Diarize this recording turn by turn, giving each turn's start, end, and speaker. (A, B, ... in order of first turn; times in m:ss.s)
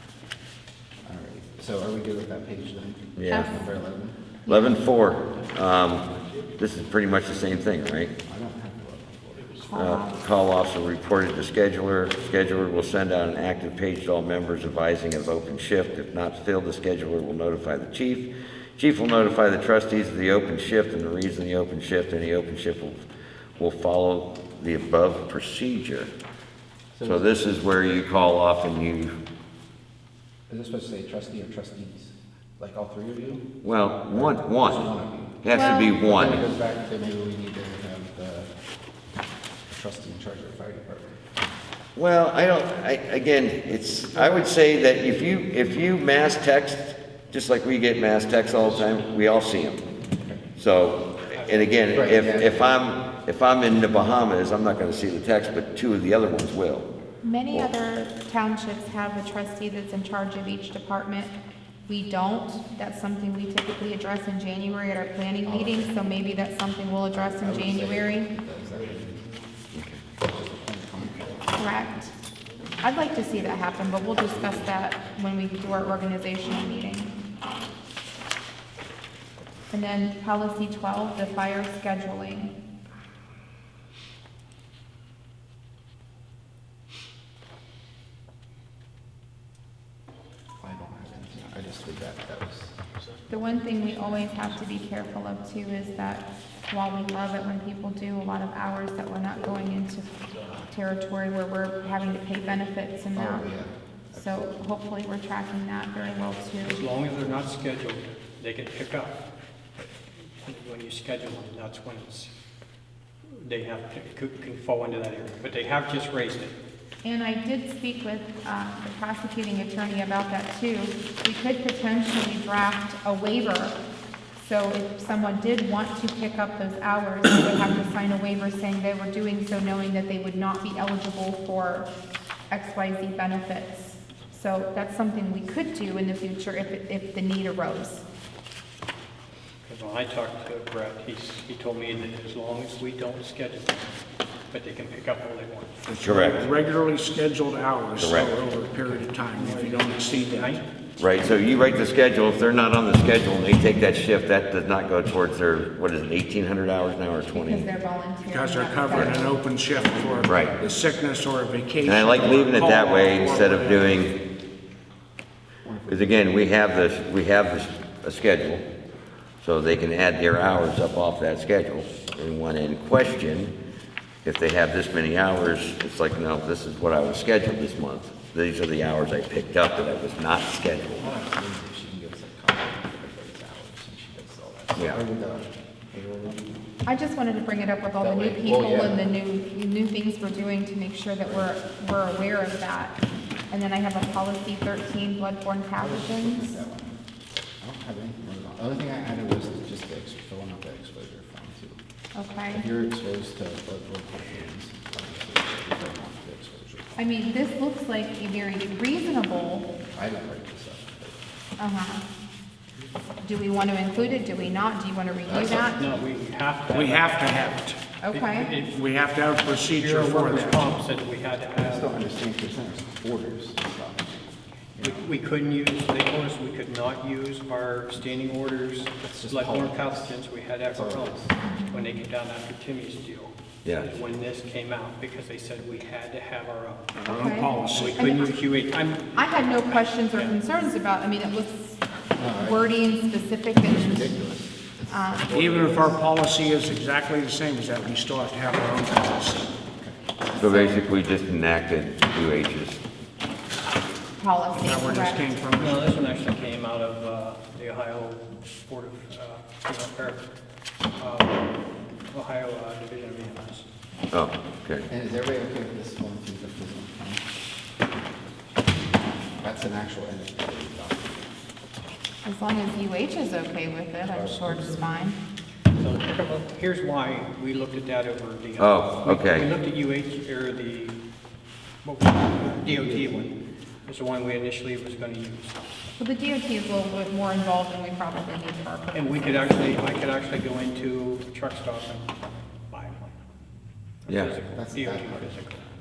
0:01.0-0:04.2 A
0:03.2-0:03.5 B
0:04.5-0:04.8 C
0:04.5-0:08.1 B
0:08.2-0:09.7 A
0:09.7-0:10.2 C
0:09.7-0:23.0 B
0:23.6-0:26.1 B
0:27.0-0:27.3 A
0:27.0-0:29.2 B
0:30.5-0:33.6 A
0:33.6-0:34.9 B
0:34.1-0:38.5 A
0:35.4-0:36.4 B
0:35.5-0:36.0 C
0:39.7-0:41.2 A
0:42.0-0:49.8 B
0:50.2-0:50.4 A
0:50.6-0:56.9 B
0:51.3-0:51.7 D
0:51.9-0:52.6 A
0:57.2-1:01.3 C
1:01.9-1:08.3 C
1:05.4-1:06.0 A
1:07.1-1:09.4 A
1:09.7-1:10.0 B
1:10.2-1:11.6 A
1:11.6-1:12.1 C
1:12.8-1:17.1 C
1:13.6-1:14.7 A
1:19.7-1:22.5 C
1:30.6-1:32.7 A
1:33.3-1:43.5 C
1:43.1-1:44.2 A
1:44.1-1:46.8 C
1:46.6-1:49.2 D
1:50.4-1:52.3 D
1:53.4-1:56.6 D
1:57.0-2:03.8 C
2:04.4-2:11.9 C
2:12.5-2:18.0 C
2:19.6-2:24.0 D
2:24.5-2:25.8 D
2:25.9-2:30.6 E
2:26.0-2:26.5 B
2:28.0-2:28.3 B
2:29.3-2:30.6 D
2:31.0-2:37.7 B
2:37.3-2:39.4 C
2:38.3-2:43.9 E
2:39.8-2:40.8 A
2:40.2-2:40.6 B
2:41.8-2:44.2 B
2:45.6-2:46.3 A
2:45.9-2:48.6 B
2:49.4-2:53.5 B
2:54.2-3:01.1 B
3:01.0-3:06.8 A
3:06.8-3:13.0 C
3:08.0-3:09.0 A
3:11.2-3:11.5 A
3:13.5-3:16.6 C
3:15.8-3:17.0 A
3:17.6-3:21.8 A
3:22.2-3:22.6 C
3:22.5-3:27.1 A
3:27.0-3:29.7 C
3:29.9-3:31.2 A
3:31.6-3:32.0 C
3:33.2-3:35.9 C
3:34.0-3:34.3 A
3:35.3-3:36.1 A
3:35.8-3:37.4 D
3:36.7-3:37.8 E
3:38.0-3:38.6 C
3:38.1-3:38.8 D
3:38.7-3:40.8 E
3:39.7-3:42.0 D
3:41.6-3:45.0 A
3:44.8-3:56.9 D
3:49.0-3:51.3 A
3:51.4-3:51.9 C
3:56.9-3:58.2 E
3:57.1-3:58.4 C
3:57.6-4:00.4 D
3:59.2-4:01.8 C
4:02.2-4:02.7 A
4:02.3-4:04.2 C
4:03.6-4:06.0 A
4:04.9-4:05.8 C
4:05.3-4:09.5 E
4:10.4-4:10.8 C
4:10.4-4:12.8 B
4:14.2-4:15.3 C
4:14.6-4:16.0 E
4:15.5-4:20.2 D
4:21.0-4:21.5 D
4:22.1-4:23.7 D
4:24.1-4:24.9 B
4:24.9-4:27.2 A
4:29.4-4:31.3 A
4:32.2-4:35.2 C
4:34.1-4:34.8 A
4:35.8-4:41.0 D
4:38.6-4:39.5 B
4:41.8-4:43.4 D
4:42.6-4:43.3 A
4:43.9-4:45.6 D
4:46.0-4:49.6 C
4:48.9-4:52.1 D
4:52.7-4:53.2 D
4:54.0-4:55.6 D
4:54.1-4:54.4 B
4:54.5-4:55.4 A